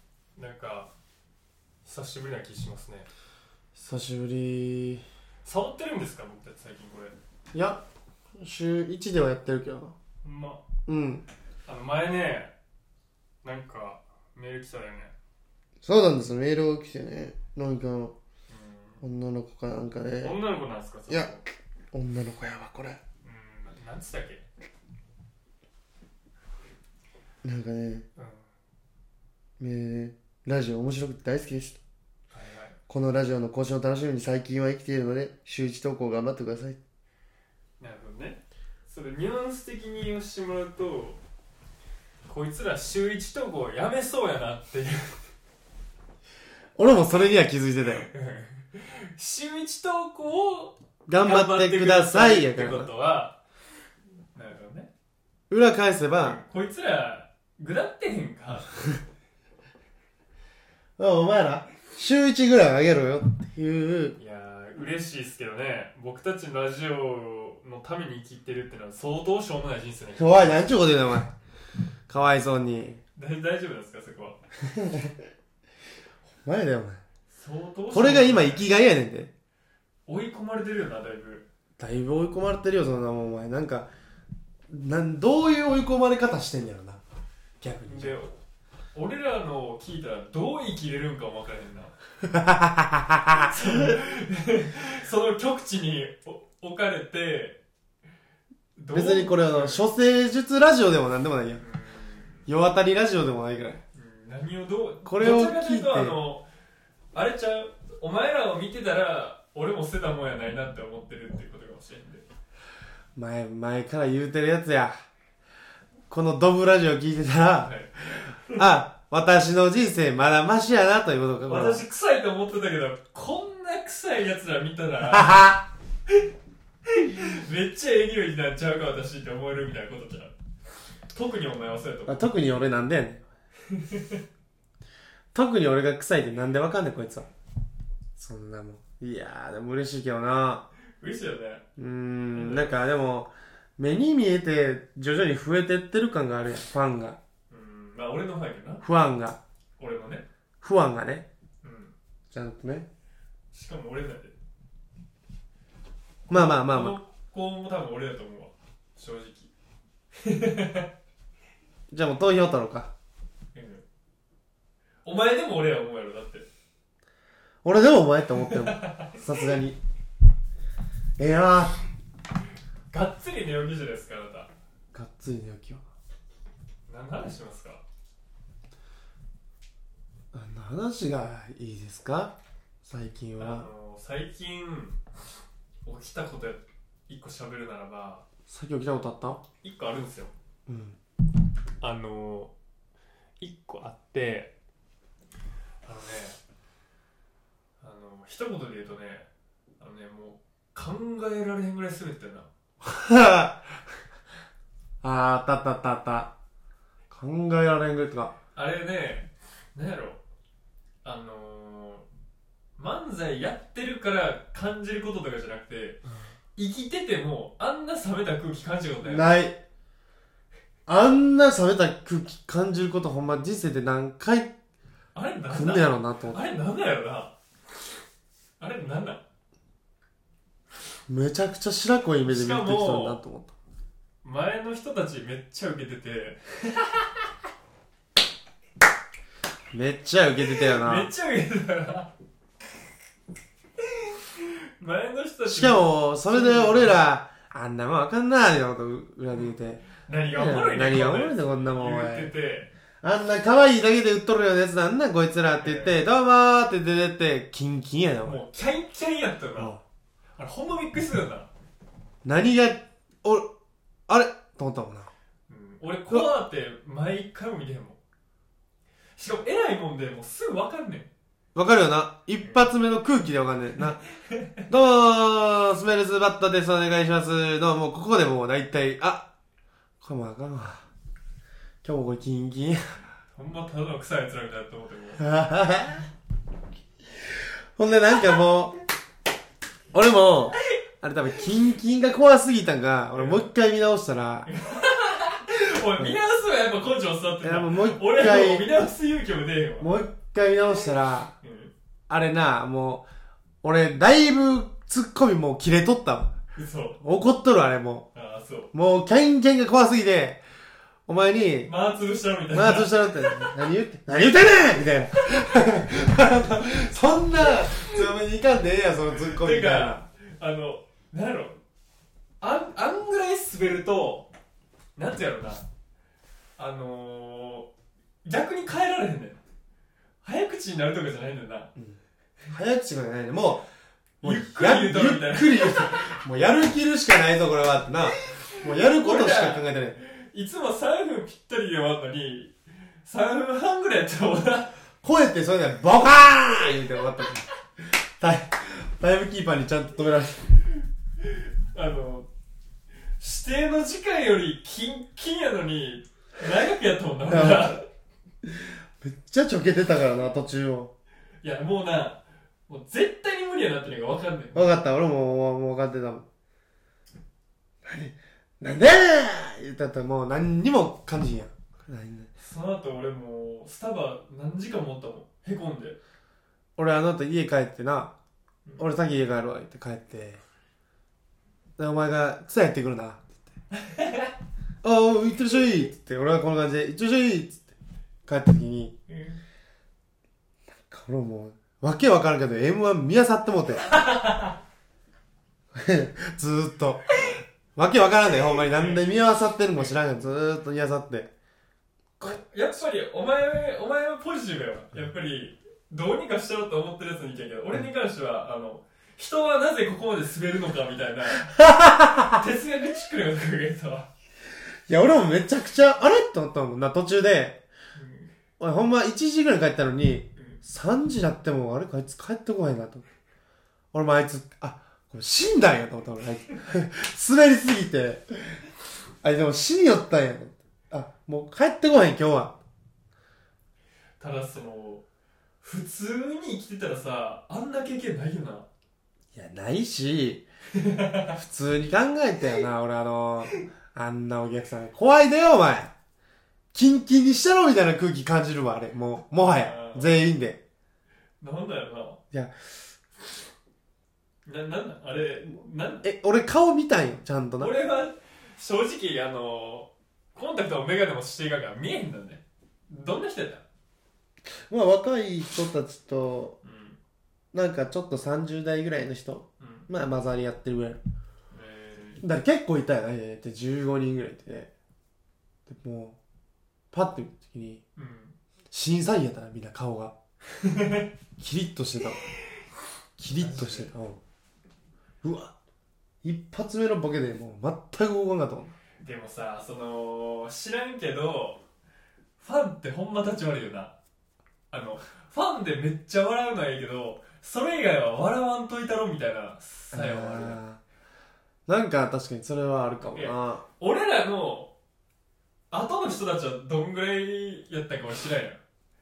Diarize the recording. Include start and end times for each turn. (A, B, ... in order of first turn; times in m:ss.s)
0:00.4-0:00.9 A
0:01.8-0:03.1 A
0:03.7-0:05.0 B
0:05.4-0:07.1 A
0:07.5-0:07.8 B
0:08.4-0:10.0 B
0:10.2-0:10.6 A
0:10.9-0:11.2 B
0:11.6-0:12.5 A
0:13.4-0:15.1 A
0:15.8-0:18.1 B
0:18.5-0:19.0 A
0:19.0-0:20.4 B
0:20.2-0:21.4 A
0:21.9-0:23.0 B
0:23.2-0:24.4 A
0:27.4-0:28.0 B
0:28.2-0:28.4 A
0:29.6-0:31.8 B
0:32.3-0:32.8 A
0:32.9-0:36.8 B
0:37.8-0:41.2 A
0:42.2-0:45.2 A
0:46.8-0:48.1 B
0:48.0-0:53.4 A
0:51.1-0:52.9 B
0:54.4-0:54.9 A
0:55.5-0:56.4 B
0:56.2-0:58.7 A
1:01.0-1:04.2 B
1:04.2-1:10.7 A
1:10.2-1:11.3 B
1:12.1-1:13.0 B
1:13.2-1:14.4 A
1:14.7-1:15.1 B
1:16.4-1:17.0 B
1:17.3-1:18.7 A
1:17.9-1:19.3 B
1:20.1-1:21.5 A
1:21.8-1:23.9 B
1:24.7-1:27.0 B
1:27.6-1:28.2 B
1:27.8-1:28.3 A
1:28.9-1:31.9 A
1:32.2-1:34.0 B
1:33.3-1:37.6 A
1:38.8-1:39.8 A
1:38.9-1:41.6 B
1:41.6-1:42.4 A
1:42.5-1:43.8 B
1:43.9-1:46.4 A
1:45.0-1:46.2 B
1:47.1-1:52.2 A
1:53.2-1:54.9 B
1:56.1-2:01.8 B
1:57.6-1:57.9 A
2:01.5-2:05.4 A
2:05.1-2:05.6 B
2:06.9-2:10.3 A
2:11.1-2:12.3 A
2:12.1-2:13.2 B
2:13.7-2:14.2 A
2:15.3-2:17.3 B
2:18.2-2:20.6 B
2:21.0-2:21.6 A
2:21.8-2:27.2 B
2:22.3-2:22.8 A
2:27.5-2:28.8 A
2:28.8-2:29.4 B
2:29.8-2:30.2 A
2:30.6-2:31.3 B
2:31.6-2:31.9 A
2:32.3-2:32.9 B
2:33.5-2:34.3 A
2:36.3-2:37.0 B
2:36.3-2:39.5 A
2:40.2-2:40.9 A
2:41.9-2:42.9 B
2:43.5-2:43.8 A
2:45.0-2:46.4 A
2:47.6-2:49.8 B
2:48.5-2:49.2 A
2:51.2-2:51.8 B
2:52.9-2:54.5 A
2:54.9-2:55.8 B
2:56.9-2:57.8 A
3:00.3-3:03.7 B
3:03.4-3:05.0 A
3:05.8-3:08.2 A
3:08.5-3:09.4 B
3:09.6-3:10.3 A
3:10.7-3:11.0 B
3:11.8-3:12.5 A
3:13.4-3:14.5 A
3:15.8-3:16.4 A
3:17.8-3:19.3 A
3:19.8-3:22.5 A
3:22.8-3:23.8 B
3:25.0-3:26.3 B
3:27.1-3:28.3 B
3:28.5-3:30.2 A
3:31.0-3:32.0 A
3:32.8-3:36.0 A
3:36.6-3:39.3 A
3:39.0-3:39.6 B
3:40.9-3:44.5 B
3:45.1-3:47.3 A
3:45.5-3:46.4 B
3:48.6-3:49.2 A
3:51.1-3:53.5 B
3:52.2-3:53.2 A
3:54.2-3:57.2 A
3:59.7-4:01.1 B
4:00.6-4:02.1 A
4:03.8-4:07.0 A
4:05.5-4:12.3 B
4:09.4-4:12.7 A
4:13.0-4:18.4 B
4:15.6-4:16.0 A
4:18.2-4:19.8 A
4:20.4-4:21.5 A
4:22.2-4:23.5 B
4:24.1-4:25.1 B
4:25.5-4:28.0 A
4:29.2-4:31.1 A
4:31.5-4:34.0 B
4:34.3-4:34.6 A
4:34.7-4:39.3 B
4:40.0-4:40.8 B
4:41.8-4:42.8 B
4:43.3-4:45.2 A
4:45.2-4:46.1 B
4:47.8-4:48.8 B
4:49.9-4:54.5 B
4:53.1-4:53.4 A
4:54.5-4:59.9 A
4:57.4-4:58.7 B
4:59.8-5:01.3 B
5:01.4-5:01.7 A
5:02.1-5:03.0 B
5:03.6-5:06.3 B
5:06.6-5:07.0 A
5:07.0-5:08.1 B
5:08.1-5:08.7 A
5:08.7-5:10.4 B
5:11.1-5:11.7 B
5:11.6-5:13.5 A
5:12.5-5:20.0 B
5:19.2-5:21.6 A
5:22.4-5:24.3 A
5:25.0-5:25.6 A
5:26.6-5:27.7 A
5:28.2-5:29.4 A
5:30.2-5:31.7 A
5:32.5-5:33.6 B
5:34.2-5:40.0 B
5:34.2-5:36.0 A
5:38.3-5:42.5 A
5:43.0-5:44.7 A
5:45.0-5:50.6 B
5:51.2-5:52.3 A
5:53.2-5:57.8 A
5:57.3-5:57.7 B
5:58.4-6:00.9 B
6:01.4-6:04.7 A
6:04.5-6:06.2 B
6:07.8-6:12.3 B
6:12.4-6:16.0 A
6:16.8-6:18.1 B
6:18.8-6:20.4 B
6:21.8-6:23.4 B
6:23.7-6:24.3 A
6:24.8-6:27.7 B
6:28.2-6:28.9 B
6:29.1-6:29.4 A
6:30.9-6:33.8 B
6:33.8-6:34.6 A
6:35.7-6:37.0 B
6:37.7-6:41.3 B
6:38.6-6:39.0 A
6:39.7-6:40.2 A
6:42.2-6:42.8 B
6:42.2-6:51.5 A
6:51.4-6:52.4 B
6:52.2-6:54.1 A
6:54.9-6:57.6 B
6:58.0-6:58.3 A
6:58.6-7:03.0 B
7:03.9-7:08.5 B
7:09.2-7:12.6 B
7:14.2-7:15.0 A
7:15.6-7:18.7 A
7:19.3-7:20.4 B
7:20.7-7:21.4 A
7:21.4-7:25.9 B
7:26.7-7:30.6 B
7:29.4-7:30.2 A
7:31.4-7:32.2 A
7:34.4-7:36.1 A
7:36.0-7:37.7 B
7:37.6-7:43.6 A
7:44.7-7:46.6 B
7:46.6-7:47.0 A
7:47.5-7:51.0 B
7:49.6-7:49.9 A
7:51.5-7:52.2 A
7:52.2-7:54.7 B
7:55.7-7:56.2 B
7:56.9-7:57.8 B
7:58.0-7:58.3 A
7:58.7-8:00.1 B
8:00.5-8:01.1 A
8:01.4-8:02.2 B
8:03.2-8:04.2 B
8:03.3-8:03.9 A
8:05.2-8:05.5 B
8:06.2-8:08.7 B
8:09.0-8:11.6 A
8:12.4-8:13.9 A
8:14.7-8:20.6 A
8:19.9-8:20.8 B
8:21.7-8:23.6 B
8:23.0-8:24.7 A
8:25.7-8:28.6 A